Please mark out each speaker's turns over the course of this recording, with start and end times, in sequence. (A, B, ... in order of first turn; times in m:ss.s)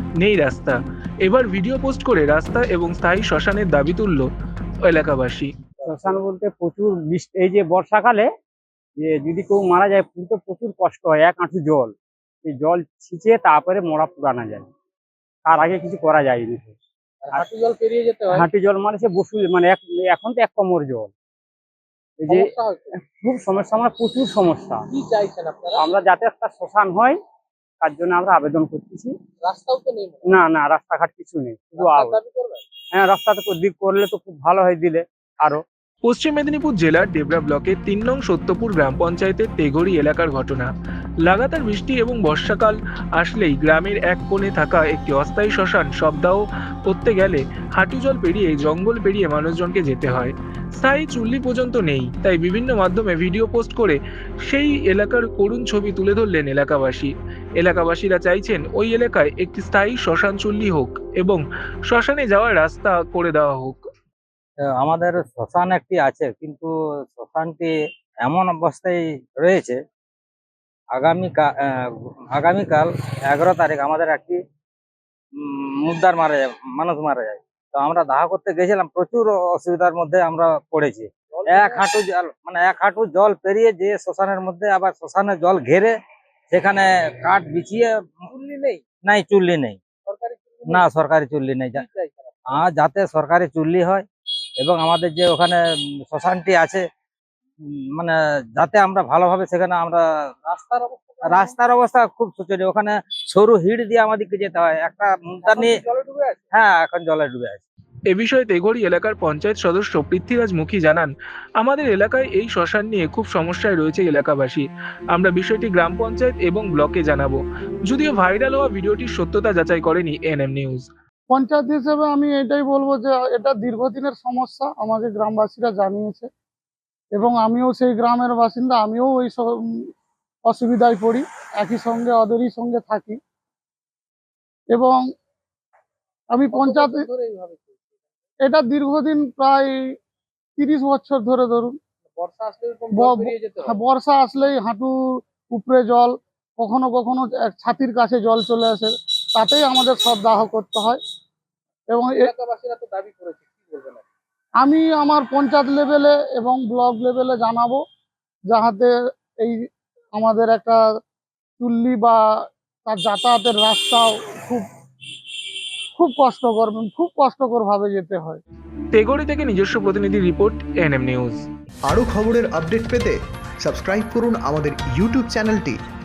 0:00.2-0:04.3 A
0:04.8-0:05.5 A
0:05.8-0:08.3 B
0:09.0-0:11.9 B
0:12.4-0:14.7 B
0:15.4-0:16.8 B
0:17.2-0:18.4 C
0:18.3-0:21.1 B
0:22.2-0:24.8 B
0:22.3-0:22.9 C
0:24.9-0:25.8 C
0:25.8-0:27.2 B
0:27.8-0:29.1 B
0:29.4-0:30.2 C
0:30.2-0:32.2 B
0:31.8-0:32.6 C
0:32.9-0:35.6 B
0:36.0-0:40.7 A
0:41.2-1:03.8 A
1:04.8-1:07.7 D
1:08.2-1:09.8 D
1:10.9-1:11.5 D
1:12.3-1:14.4 D
1:15.4-1:25.9 D
1:21.3-1:21.9 C
1:26.5-1:27.9 D
1:28.3-1:28.8 C
1:28.9-1:29.8 D
1:30.0-1:30.9 C
1:30.7-1:31.8 D
1:31.7-1:32.6 C
1:32.5-1:34.0 D
1:34.6-1:36.8 D
1:38.0-1:40.0 D
1:40.5-1:41.6 C
1:41.3-1:45.7 D
1:45.4-1:46.4 C
1:46.5-1:47.6 D
1:48.1-2:00.8 A
2:01.3-2:06.3 E
2:07.1-2:09.4 E
2:10.5-2:13.2 E
2:14.7-2:15.0 E
2:16.3-2:17.0 E
2:16.5-2:17.8 C
2:18.4-2:19.7 E
2:20.6-2:21.8 E
2:22.2-2:23.8 C
2:22.9-2:24.9 E
2:25.5-2:31.0 E
2:31.9-2:32.3 E
2:32.2-2:34.0 C
2:34.6-2:37.8 E
2:38.5-2:39.6 E
2:40.1-2:40.8 E
2:41.6-2:42.2 E
2:42.8-2:44.6 E
2:46.0-2:48.4 E
2:48.9-2:51.4 A
2:51.9-2:55.8 F